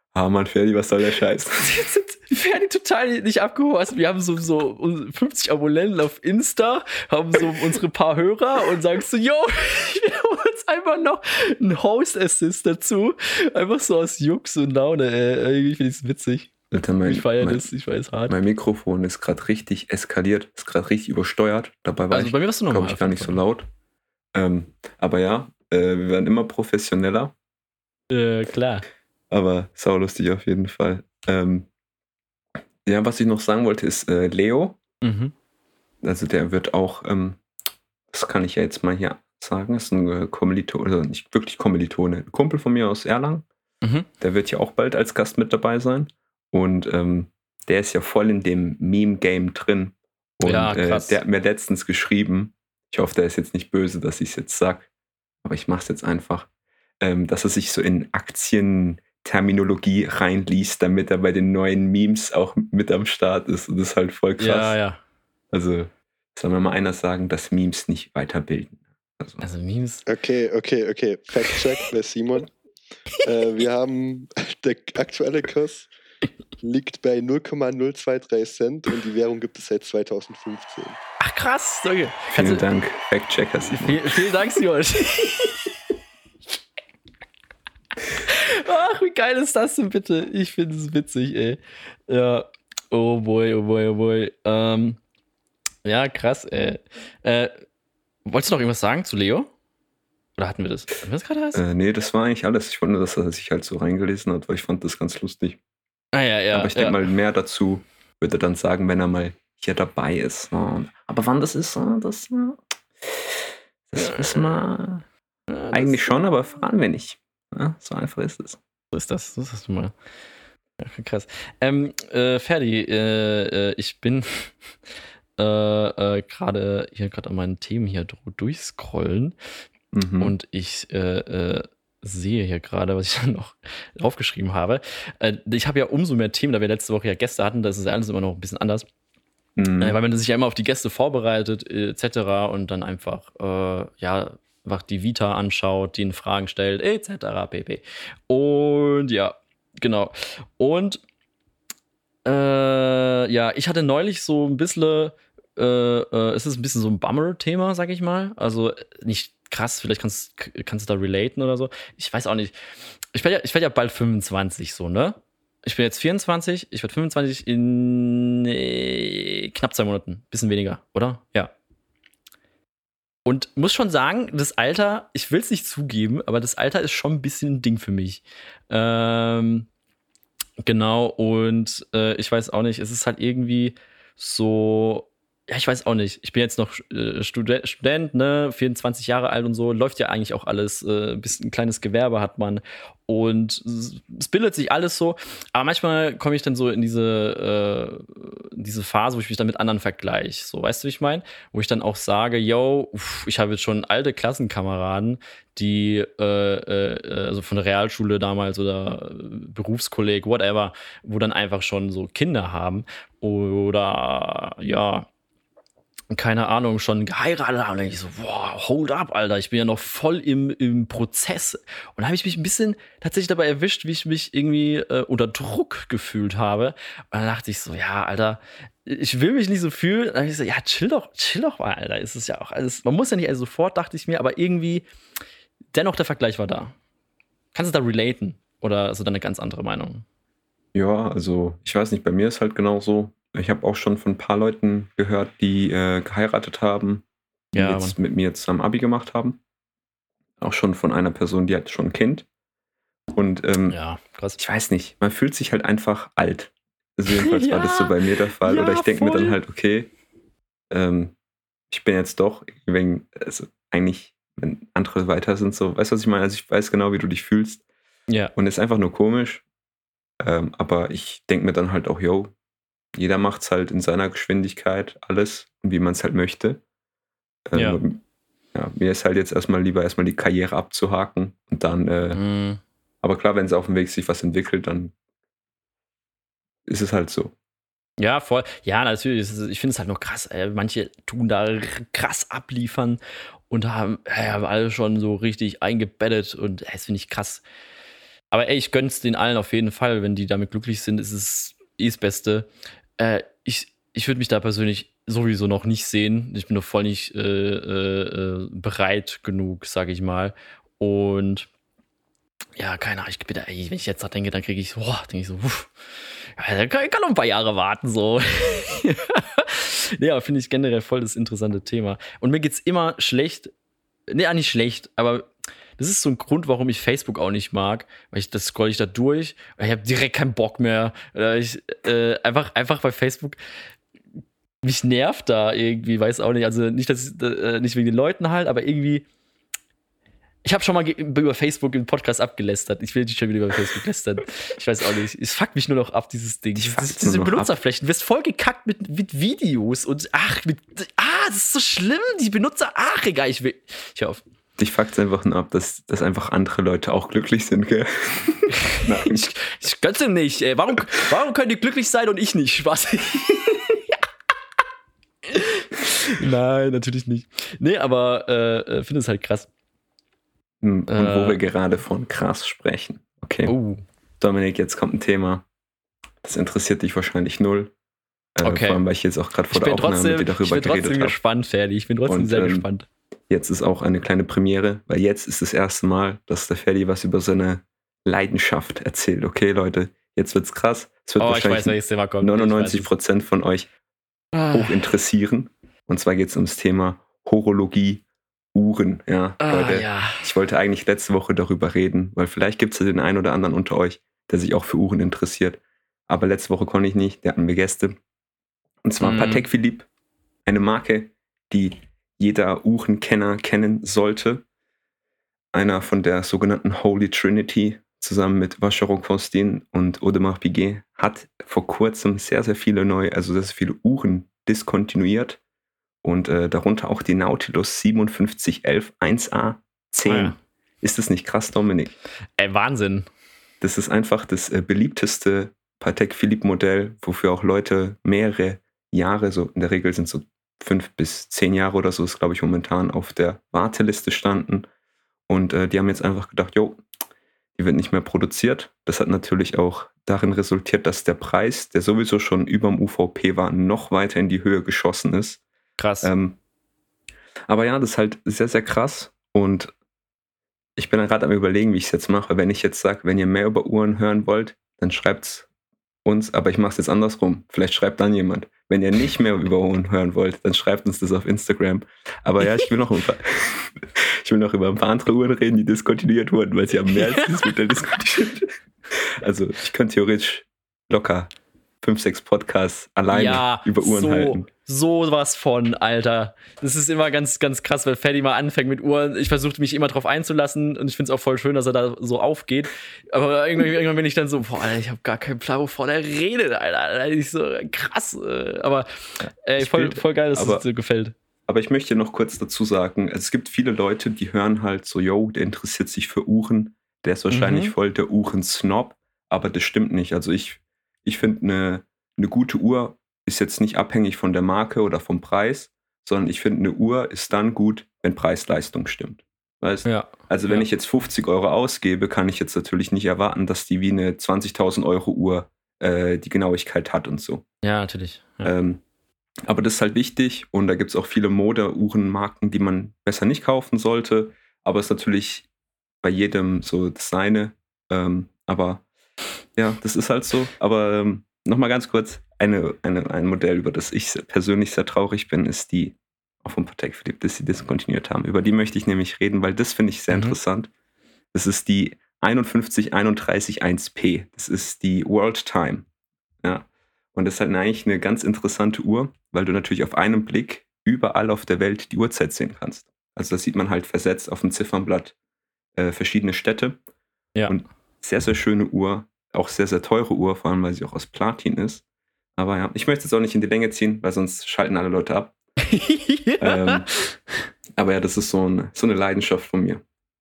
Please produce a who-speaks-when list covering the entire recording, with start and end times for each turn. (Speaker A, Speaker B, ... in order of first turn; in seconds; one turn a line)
Speaker A: 0.1-1.8
Speaker B: 1.6-16.5
Speaker A: 16.7-17.7
Speaker B: 17.1-18.4
Speaker A: 18.3-23.7
Speaker B: 22.1-23.4
Speaker A: 24.3-27.3
Speaker B: 28.1-28.9
Speaker A: 29.3-31.7
Speaker A: 32.9-34.8
Speaker B: 35.0-35.3
Speaker A: 36.0-37.4
Speaker A: 38.1-43.5
Speaker A: 44.2-54.9
Speaker B: 50.5-51.2
Speaker A: 55.4-56.5
Speaker A: 57.0-64.8
Speaker B: 64.4-65.0
Speaker A: 65.5-69.5
Speaker B: 69.4-70.0
Speaker C: 70.1-72.5
Speaker C: 73.2-75.9
Speaker C: 76.6-81.0
Speaker B: 81.2-82.6
Speaker A: 82.3-84.1
Speaker B: 83.7-85.7
Speaker B: 88.3-95.0
Speaker B: 95.8-97.6
Speaker B: 98.2-99.5
Speaker B: 100.4-101.6
Speaker A: 101.5-105.6
Speaker B: 106.1-107.0
Speaker A: 106.5-115.0
Speaker B: 115.5-116.0
Speaker A: 115.7-118.6
Speaker B: 118.9-119.9
Speaker B: 120.8-124.5
Speaker B: 125.4-129.3
Speaker A: 129.9-130.3
Speaker B: 130.2-138.9
Speaker A: 139.6-140.0
Speaker B: 139.8-151.0
Speaker B: 152.3-162.5
Speaker B: 163.1-171.5
Speaker B: 173.3-179.7
Speaker B: 180.6-215.1
Speaker B: 216.1-234.8
Speaker B: 235.7-236.7
Speaker B: 237.5-240.1
Speaker A: 240.7-247.0
Speaker B: 247.5-248.0
Speaker A: 247.6-249.4
Speaker A: 250.4-252.3
Speaker A: 253.1-253.8
Speaker B: 253.7-254.4
Speaker A: 254.4-259.9
Speaker B: 257.1-259.4
Speaker A: 260.7-261.1
Speaker A: 261.7-267.6
Speaker A: 268.4-269.4
Speaker A: 270.2-272.3
Speaker A: 272.9-276.6
Speaker A: 277.5-278.0
Speaker A: 278.5-282.2
Speaker B: 282.1-282.6
Speaker A: 283.0-284.9
Speaker A: 286.7-287.3
Speaker B: 288.0-297.4
Speaker B: 298.3-302.5
Speaker B: 303.0-311.5
Speaker B: 312.6-315.7
Speaker B: 316.4-323.5
Speaker B: 324.1-325.3
Speaker B: 325.8-333.4
Speaker B: 334.6-339.1
Speaker B: 340.4-354.2
Speaker A: 346.6-347.5
Speaker A: 354.6-359.3
Speaker B: 358.7-363.8
Speaker B: 365.3-369.5
Speaker A: 370.6-373.5
Speaker B: 370.9-371.4
Speaker B: 373.5-373.8
Speaker A: 374.2-375.5
Speaker A: 376.2-377.7
Speaker A: 378.4-381.2
Speaker B: 378.4-378.8
Speaker B: 379.5-382.9
Speaker A: 382.1-382.7
Speaker A: 383.3-393.7
Speaker B: 391.2-392.9
Speaker B: 394.3-394.8
Speaker A: 394.5-408.0
Speaker B: 399.4-400.2
Speaker A: 408.8-409.9
Speaker B: 409.0-409.4
Speaker A: 410.5-414.4
Speaker A: 415.5-425.4
Speaker A: 426.0-431.9
Speaker B: 430.1-430.4
Speaker B: 432.4-433.1
Speaker A: 433.6-444.7
Speaker A: 445.3-446.8
Speaker A: 447.6-455.4
Speaker B: 455.8-456.1
Speaker A: 456.0-456.4
Speaker A: 457.5-459.7
Speaker A: 460.8-465.5
Speaker A: 466.1-481.3
Speaker B: 476.9-477.3
Speaker A: 481.8-484.5
Speaker B: 483.1-498.9
Speaker B: 499.4-501.1
Speaker A: 499.6-500.6
Speaker A: 501.5-527.4
Speaker B: 507.3-507.7
Speaker B: 519.9-520.7
Speaker B: 527.6-528.5
Speaker A: 528.4-528.8
Speaker A: 529.5-535.5
Speaker A: 536.0-538.8
Speaker A: 539.6-550.7
Speaker B: 550.1-550.4
Speaker A: 551.3-555.9
Speaker A: 556.4-565.1
Speaker A: 565.8-566.8
Speaker A: 567.5-571.8
Speaker A: 572.4-575.4
Speaker B: 575.7-577.1
Speaker A: 576.4-576.9
Speaker A: 577.8-579.8